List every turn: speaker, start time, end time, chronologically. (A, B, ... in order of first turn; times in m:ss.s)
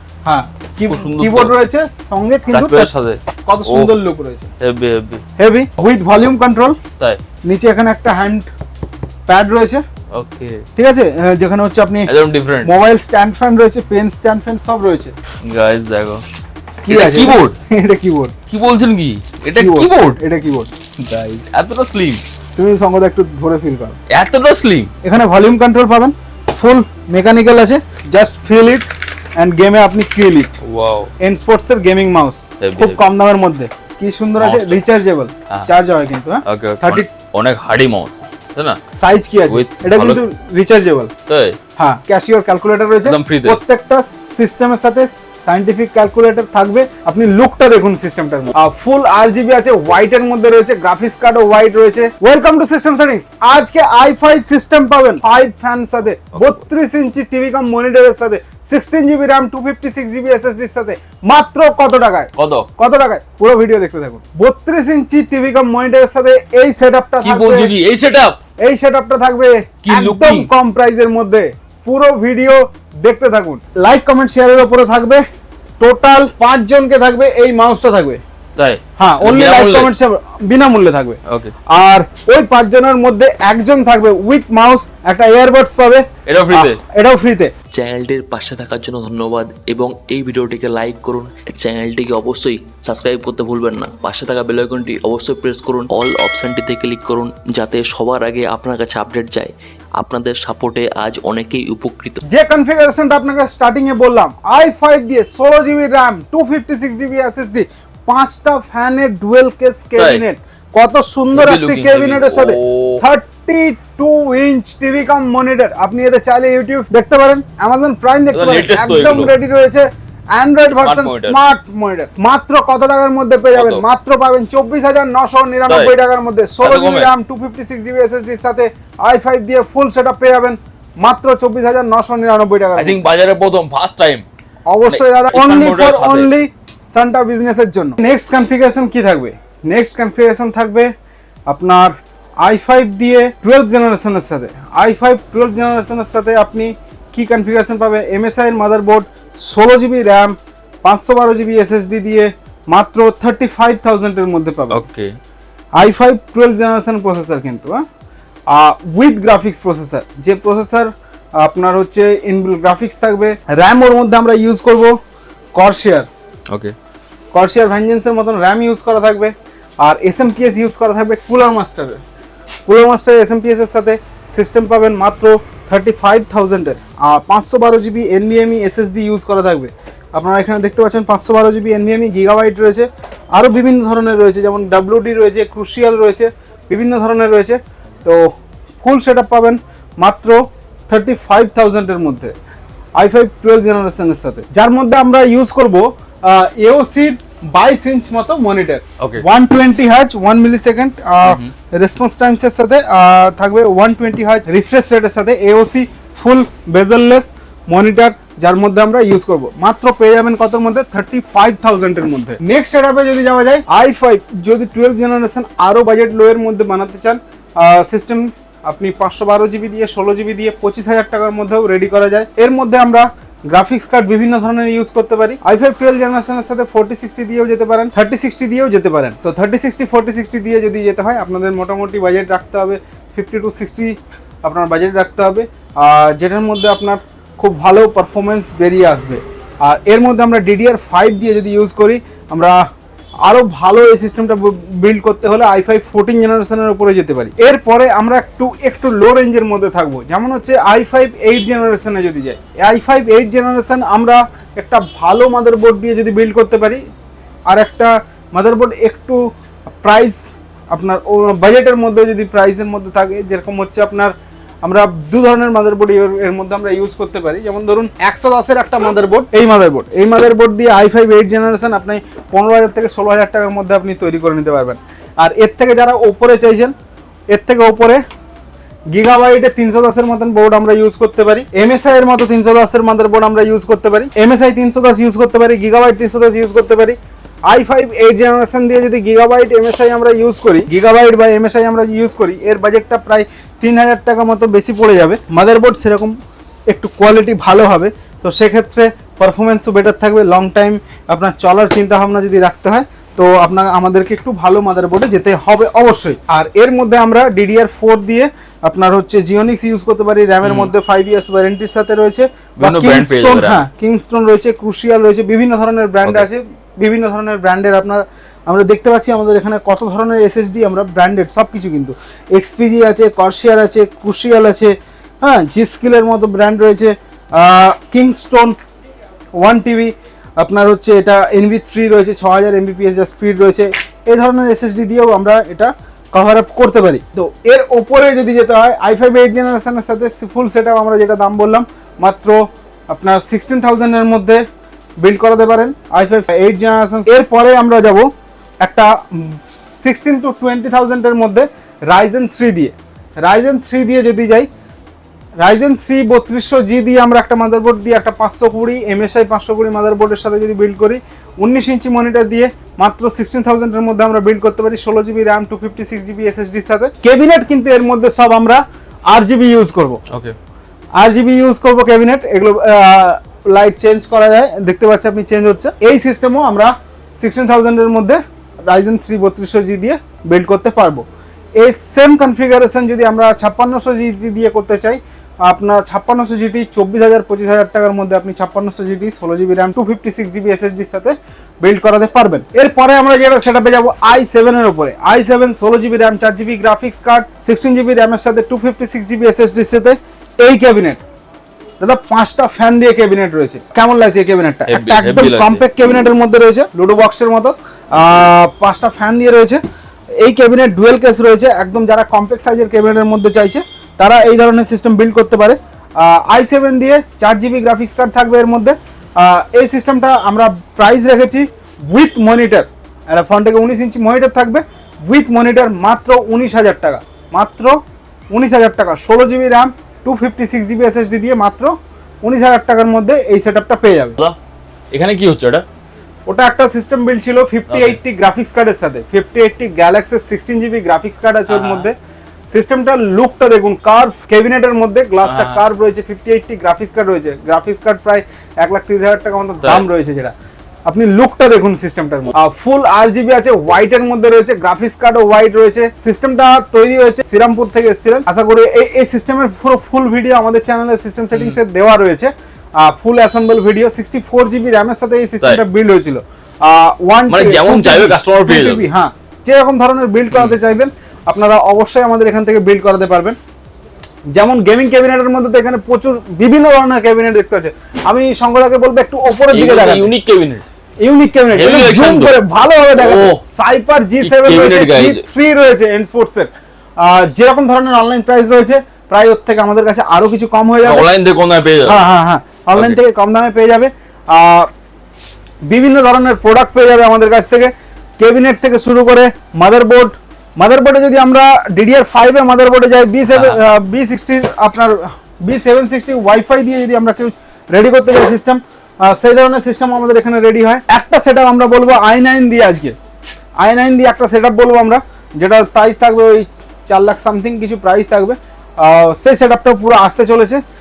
0:00.2-0:02.9 A
0:00.9-0:01.5 B
0:02.5-0:03.9 B
0:03.5-0:04.5 A
0:04.6-0:05.2 B
0:05.4-0:06.8 A
0:07.4-0:08.5 A
0:09.3-0:09.8 A
0:10.1-0:10.6 B
0:10.8-0:12.1 A
0:12.1-0:12.7 B
0:12.6-0:15.1 A
0:15.4-0:16.2 B
0:16.8-0:18.3 A
0:16.9-0:17.5 B
0:18.5-0:20.2 B
0:19.6-0:20.7 A
0:21.0-0:22.2 B
0:22.6-0:24.0 A
0:24.1-0:24.9 B
0:25.0-0:30.5 A
0:30.6-0:31.1 B
0:31.2-0:37.1 A
0:32.6-0:33.0 B
0:34.4-0:34.8 B
0:36.4-0:38.8 B
0:38.9-0:41.1 A
0:39.5-0:40.2 B
0:41.3-0:41.6 B
0:41.8-1:07.7 A
0:43.0-0:43.6 B
0:56.3-0:56.6 B
1:02.4-1:02.7 B
1:07.2-1:08.4 B
1:08.6-1:15.2 A
1:09.8-1:10.5 B
1:15.8-1:18.2 A
1:18.6-1:19.9 B
1:19.0-1:21.2 A
1:21.3-1:21.5 B
1:21.7-1:27.5 A
1:26.2-1:26.8 B
1:27.7-1:42.2 C
1:42.2-2:13.0 A
1:50.0-1:50.2 B
1:51.3-1:53.0 B
1:58.3-1:59.3 B
2:00.7-2:01.4 B
2:03.5-2:03.8 B
2:06.6-2:07.1 B
2:12.8-2:14.2 B
2:14.7-2:20.9 A
2:14.9-2:16.3 B
2:21.5-2:34.8 A
2:34.7-2:35.2 B
2:35.8-2:37.8 A
2:38.5-2:45.0 A
2:45.6-2:46.1 A
2:46.5-2:46.7 B
2:47.3-2:52.0 A
2:52.7-3:12.3 A
3:13.0-4:02.6 A
3:21.2-3:21.5 B
4:03.2-4:16.8 A
4:17.5-4:36.7 A
4:37.3-4:38.0 A
4:38.9-4:56.1 A
4:56.7-5:28.6 A
5:10.4-5:10.7 B
5:12.6-5:13.6 B
5:29.4-5:44.4 A
5:45.0-5:48.1 A
5:48.6-5:54.5 A
5:55.4-6:10.0 A
6:10.1-6:10.4 B
6:11.0-6:21.0 A
6:21.6-6:41.0 A
6:41.8-6:49.6 A
6:44.7-6:45.6 B
6:50.2-7:07.8 A
7:08.3-7:14.2 A
7:14.9-7:15.6 B
7:16.3-7:21.9 A
7:17.7-7:18.0 B
7:21.5-7:21.9 B
7:22.5-7:30.3 A
7:25.2-7:25.6 B
7:30.9-7:53.4 A
7:47.3-7:48.9 B
7:54.3-8:00.1 A
7:59.5-8:00.6 B
8:01.0-8:11.1 A
8:01.5-8:02.4 B
8:03.0-8:03.4 B
8:04.2-8:05.2 B
8:10.8-8:12.0 B
8:11.8-8:14.7 A
8:15.7-8:32.9 A
8:23.3-8:23.6 B
8:33.6-8:40.6 A